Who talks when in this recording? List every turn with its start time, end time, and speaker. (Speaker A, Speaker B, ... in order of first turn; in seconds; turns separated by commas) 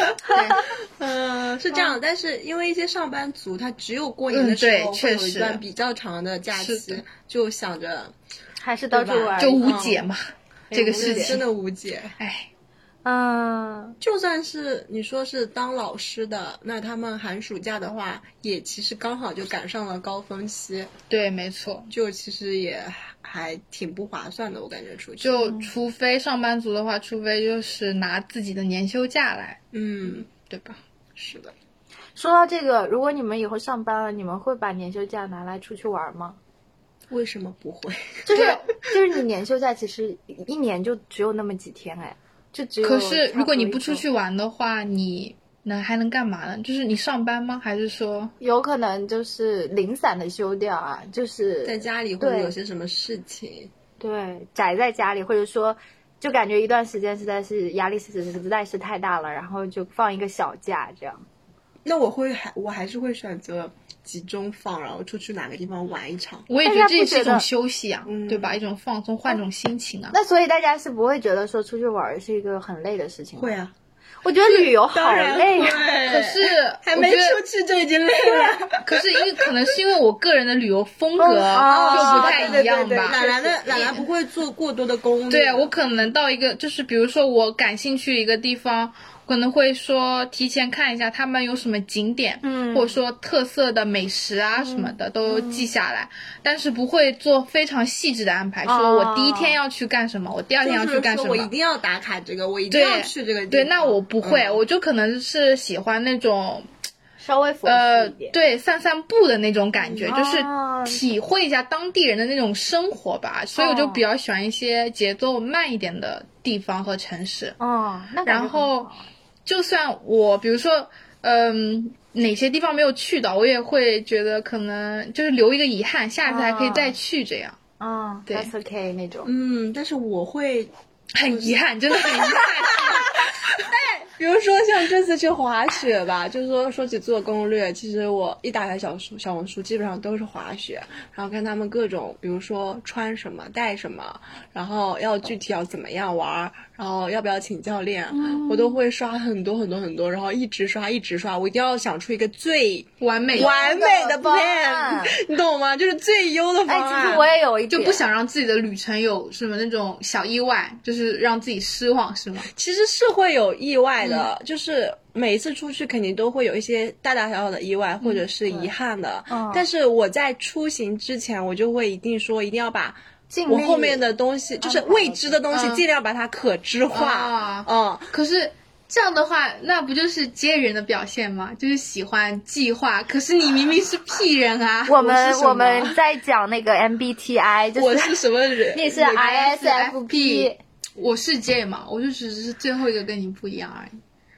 Speaker A: 0.2-0.6, Speaker B: 0.3-0.6, Speaker C: 1.0-8.1, Speaker A: 4.3-5.6, Speaker A: 6.5-7.0, Speaker B: 8.6-9.9, Speaker C: 8.9-10.0, Speaker A: 9.4-10.2, Speaker B: 10.7-11.4, Speaker A: 10.7-11.4, Speaker C: 10.8-12.1, Speaker A: 12.2-12.5, Speaker B: 13.0-14.0, Speaker C: 14.0-20.9, Speaker A: 21.1-21.9, Speaker C: 21.9-25.4, Speaker A: 25.2-30.8, Speaker B: 25.4-25.7, Speaker C: 29.7-30.3, Speaker C: 31.1-31.5, Speaker B: 32.1-36.4, Speaker C: 37.1-38.4, Speaker B: 38.2-44.0, Speaker A: 38.3-38.6, Speaker A: 42.8-48.3, Speaker B: 48.4-52.5, Speaker C: 51.6-53.7, Speaker B: 54.0-61.2, Speaker C: 61.8-66.5, Speaker A: 66.5-70.1, Speaker B: 66.6-67.5, Speaker C: 68.0-68.6, Speaker B: 70.1-73.6, Speaker C: 73.4-73.7, Speaker B: 74.2-75.9, Speaker C: 74.5-79.6, Speaker A: 76.0-77.4, Speaker A: 78.7-83.2, Speaker B: 81.2-84.0, Speaker C: 81.5-85.7, Speaker A: 85.3-101.5, Speaker B: 92.4-93.0, Speaker B: 94.6-95.7, Speaker B: 98.6-99.6, Speaker C: 100.6-104.6, Speaker A: 102.7-106.7, Speaker B: 107.2-108.3, Speaker A: 107.6-117.6, Speaker B: 110.0-111.0, Speaker B: 113.5-114.0, Speaker B: 117.6-119.0, Speaker A: 118.2-118.9, Speaker A: 119.5-127.6, Speaker B: 126.2-127.0, Speaker B: 127.8-129.3, Speaker C: 129.2-130.7, Speaker A: 131.1-133.7, Speaker C: 131.2-157.2, Speaker B: 148.1-148.8, Speaker A: 153.0-153.5, Speaker B: 153.3-155.2, Speaker B: 156.7-158.0, Speaker A: 157.7-162.5, Speaker C: 162.5-178.1, Speaker B: 169.3-169.7, Speaker B: 173.3-174.0, Speaker B: 174.6-175.4, Speaker A: 175.5-175.8, Speaker A: 176.9-185.1, Speaker B: 184.9-188.2, Speaker C: 185.0-186.0, Speaker C: 187.8-189.2, Speaker B: 188.7-190.6, Speaker A: 189.0-193.9